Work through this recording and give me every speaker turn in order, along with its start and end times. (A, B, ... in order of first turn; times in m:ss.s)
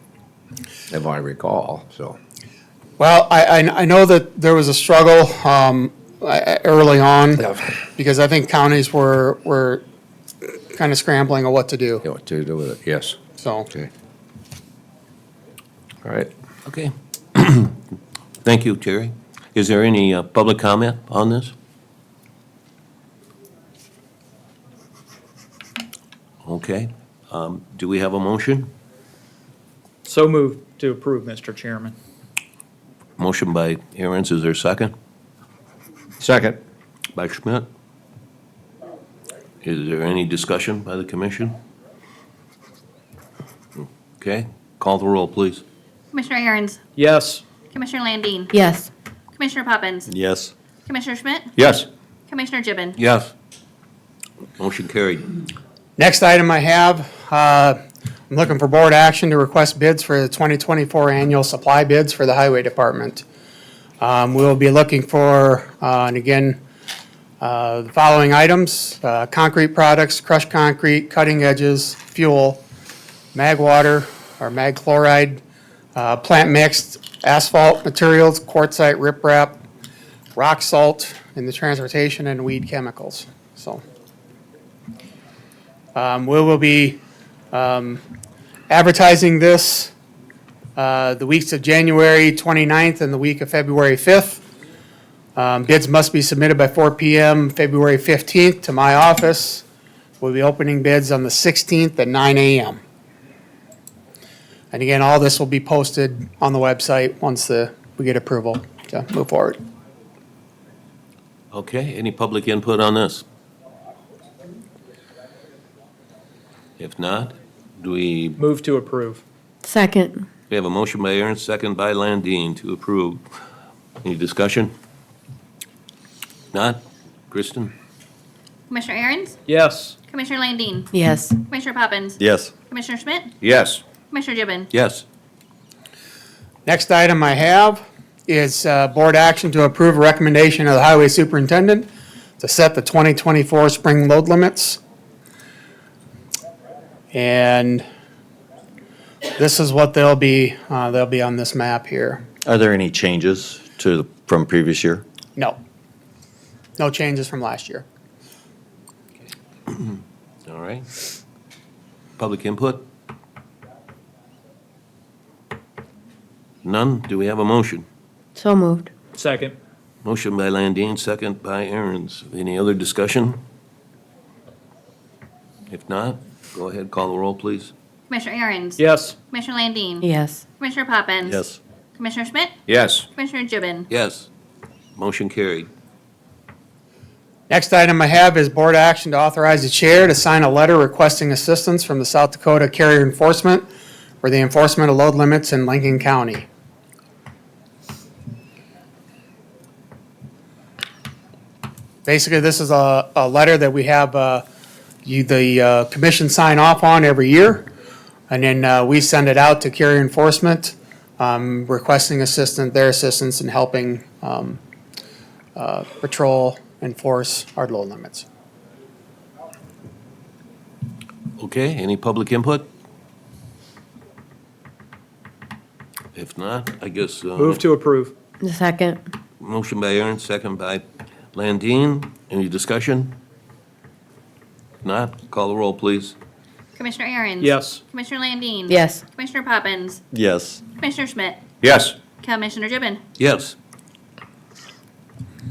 0:00.9-0:02.2 A
0:03.0-0:09.8 B
0:10.7-0:12.0 B
0:12.0-0:13.2 A
0:13.4-0:13.7 B
0:16.0-0:16.3 A
0:16.7-0:17.8 C
0:18.4-0:21.5 C
0:26.4-0:28.7 C
0:30.0-0:32.0 D
0:33.2-0:34.9 C
0:36.2-0:36.6 A
0:37.2-0:37.7 C
0:39.6-0:41.6 C
0:44.2-0:45.6 C
0:46.1-0:46.8 E
0:47.0-0:47.4 D
0:47.7-0:48.5 E
0:48.5-0:48.9 F
0:49.4-0:50.1 E
0:50.1-0:50.5 G
0:50.9-0:51.5 E
0:52.3-0:53.0 E
0:53.0-0:53.3 C
0:54.6-0:55.4 C
0:56.0-0:57.8 B
0:58.3-1:03.2 B
1:04.0-1:06.6 B
1:07.4-1:12.6 B
1:13.3-1:15.4 B
1:15.9-1:19.6 B
1:20.4-1:23.8 B
1:25.9-1:27.0 B
1:27.5-1:28.0 B
1:28.7-1:29.9 B
1:30.8-1:34.4 B
1:35.3-1:39.6 B
1:40.2-1:42.8 B
1:44.7-1:49.6 B
1:51.5-1:53.2 C
1:56.8-1:58.4 C
1:58.4-1:59.2 D
1:59.6-2:00.3 F
2:00.5-2:03.2 C
2:04.0-2:04.7 C
2:06.5-2:07.7 C
2:08.7-2:09.4 E
2:09.5-2:10.0 D
2:10.1-2:10.9 E
2:10.9-2:11.4 F
2:11.5-2:12.2 E
2:12.2-2:12.5 G
2:12.7-2:13.3 E
2:13.4-2:13.8 A
2:14.1-2:14.7 E
2:14.7-2:15.0 C
2:16.7-2:21.9 B
2:22.4-2:24.8 B
2:27.1-2:27.8 B
2:29.4-2:32.2 B
2:32.4-2:35.0 G
2:36.8-2:37.8 B
2:39.7-2:40.9 C
2:42.2-2:42.8 C
2:46.6-2:47.8 C
2:48.4-2:48.9 F
2:49.2-2:49.6 D
2:50.0-2:53.4 C
2:55.7-2:57.7 C
2:58.1-3:00.1 E
2:58.8-2:59.2 D
3:00.0-3:00.4 F
3:00.6-3:01.4 E
3:02.0-3:02.5 E
3:02.7-3:03.1 A
3:03.2-3:03.9 E
3:03.9-3:04.3 C
3:05.0-3:05.7 C
3:07.5-3:13.7 B
3:14.2-3:16.5 B
3:22.0-3:24.4 B
3:25.0-3:27.7 B
3:28.3-3:34.6 B
3:35.6-3:38.2 B
3:41.4-3:42.7 C
3:46.2-3:47.6 C
3:47.4-3:48.1 D
3:48.4-3:49.0 F
3:49.4-3:53.2 C
3:54.8-3:56.2 C
3:56.8-4:00.0 E
3:57.4-3:57.8 D
3:58.7-3:59.0 F
4:00.1-4:00.6 G
4:00.8-4:01.4 E
4:01.6-4:01.9 A
4:02.2-4:03.0 E
4:03.2-4:03.6 C